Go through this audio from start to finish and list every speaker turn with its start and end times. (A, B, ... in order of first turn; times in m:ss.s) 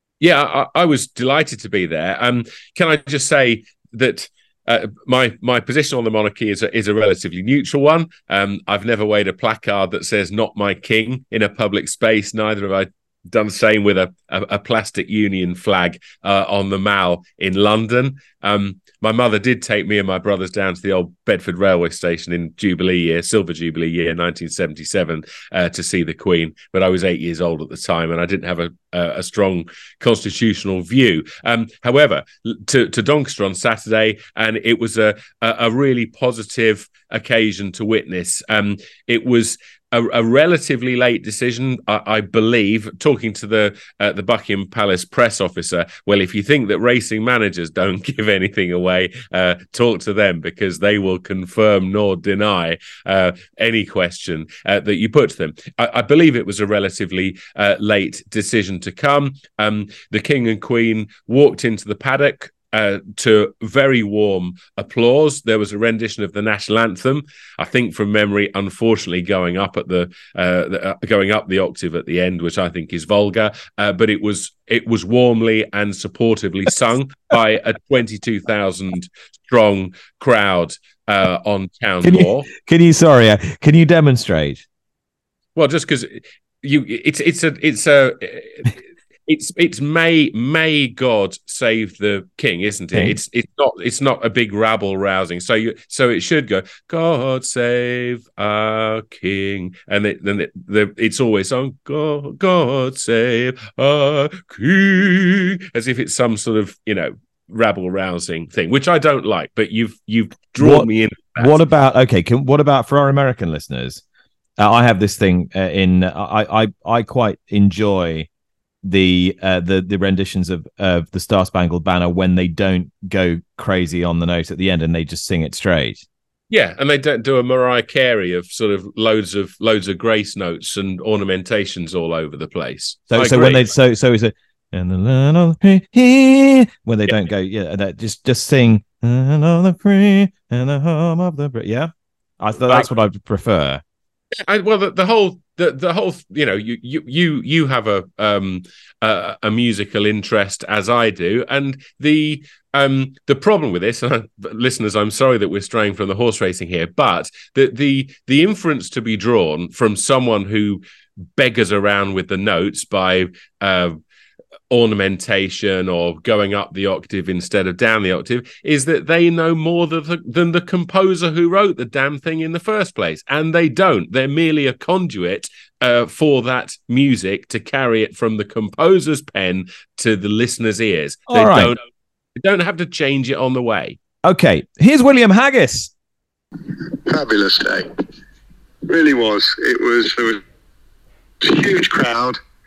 0:00.2-1:22.5 A
1:22.0-1:24.6 B
1:25.6-1:51.6 A
1:50.6-1:54.0 B
1:54.6-1:58.3 B
1:58.8-2:06.0 B
2:06.5-2:13.7 A
2:13.1-2:23.8 B
2:24.5-2:40.8 A
2:41.3-2:44.0 A
2:44.7-3:01.8 A
3:01.3-3:01.7 B
3:02.4-3:04.0 A
3:04.2-3:05.9 B
3:06.8-3:07.9 C
3:08.8-3:10.4 C
3:11.4-3:12.4 C